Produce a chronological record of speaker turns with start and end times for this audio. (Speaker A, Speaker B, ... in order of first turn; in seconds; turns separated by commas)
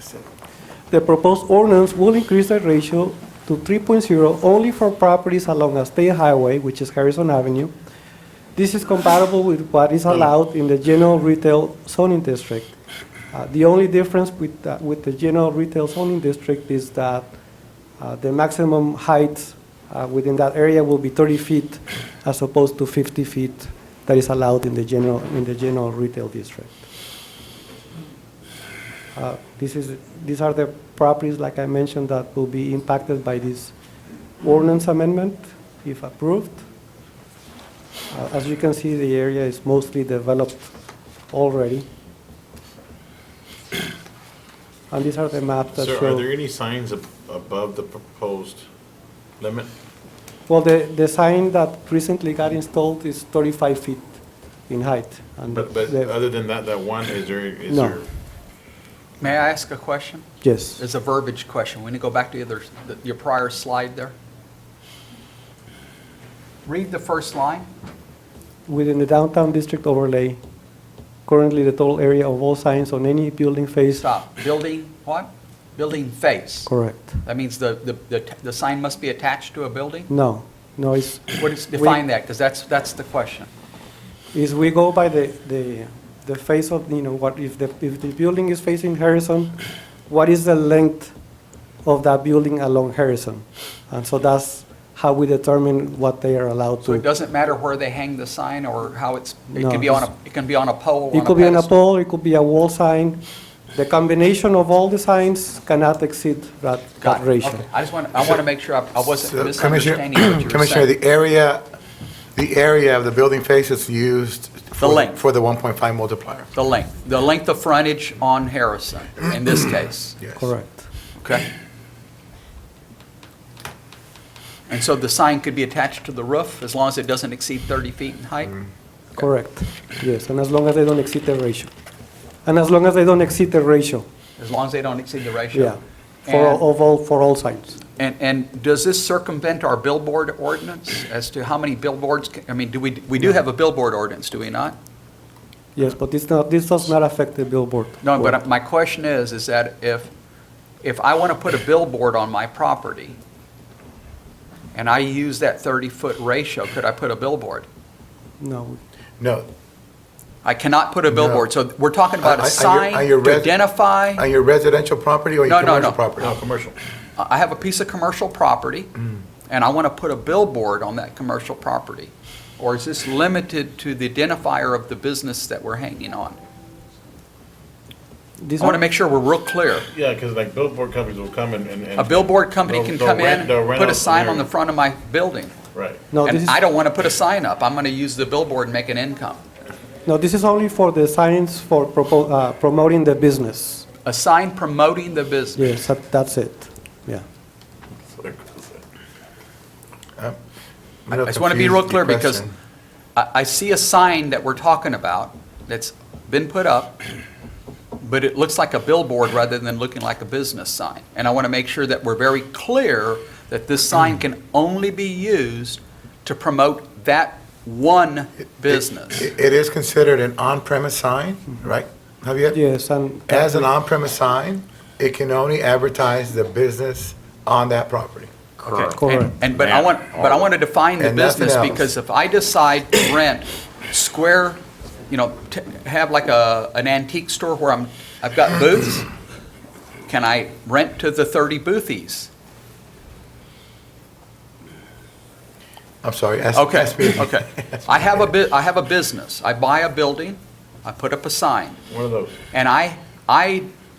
Speaker A: 0.9-7.7, Speaker A: 8.5-12.7, Speaker A: 13.3-17.3, Speaker A: 18.0-26.9, Speaker A: 29.1-33.7, Speaker A: 34.4-36.6, Speaker A: 38.1-40.7, Speaker A: 41.3-41.9, Speaker A: 44.9-46.3, Speaker B: 45.8-48.6, Speaker B: 49.4-49.7, Speaker A: 50.5-56.1, Speaker B: 55.5-58.0, Speaker A: 57.7-58.0, Speaker C: 59.2-64.1, Speaker A: 60.4-60.8, Speaker C: 66.7-67.7, Speaker A: 68.7-70.4, Speaker A: 71.2-74.0, Speaker C: 74.0-76.7, Speaker A: 76.7-77.2, Speaker C: 77.2-80.1, Speaker A: 80.1-82.0, Speaker C: 81.4-83.5, Speaker A: 84.3-89.5, Speaker A: 90.1-91.1, Speaker A: 91.8-97.0, Speaker C: 96.8-101.7, Speaker A: 99.5-100.1, Speaker A: 101.1-103.2, Speaker A: 103.7-107.6, Speaker C: 107.0-110.9, Speaker D: 109.2-111.6, Speaker D: 112.3-116.5, Speaker C: 114.8-115.2, Speaker C: 116.5-120.2, Speaker D: 120.2-120.5, Speaker A: 120.4-120.9, Speaker C: 121.2-121.5, Speaker C: 124.7-128.6, Speaker A: 129.2-131.7, Speaker A: 132.4-134.1, Speaker C: 134.4-136.6, Speaker A: 135.5-137.8, Speaker C: 138.0-144.8, Speaker A: 145.8-148.3, Speaker C: 148.0-150.1, Speaker C: 150.8-153.2, Speaker C: 154.7-157.7, Speaker A: 158.4-158.8, Speaker D: 159.2-159.5, Speaker C: 160.4-164.2, Speaker D: 161.1-161.4, Speaker D: 162.2-163.6, Speaker D: 164.1-166.4, Speaker C: 165.5-166.1, Speaker B: 166.2-166.8, Speaker C: 167.2-168.9, Speaker C: 169.5-176.4, Speaker A: 178.4-178.8, Speaker C: 178.6-179.9, Speaker B: 179.9-184.5, Speaker C: 182.0-185.5, Speaker B: 185.7-186.0, Speaker A: 186.1-186.6, Speaker C: 186.2-189.4, Speaker A: 190.1-193.8, Speaker C: 194.0-195.6, Speaker A: 195.6-197.2, Speaker B: 198.1-198.8, Speaker D: 201.1-202.5, Speaker C: 201.1-202.4, Speaker C: 203.2-207.0, Speaker C: 208.0-219.3, Speaker D: 218.7-222.6, Speaker A: 222.5-223.7, Speaker D: 223.3-228.3, Speaker C: 228.6-239.1, Speaker A: 228.7-229.4, Speaker D: 229.6-230.4, Speaker D: 231.0-231.9, Speaker C: 240.1-242.3, Speaker D: 246.0-248.1, Speaker C: 246.5-251.8, Speaker B: 251.9-252.3, Speaker C: 252.5-253.7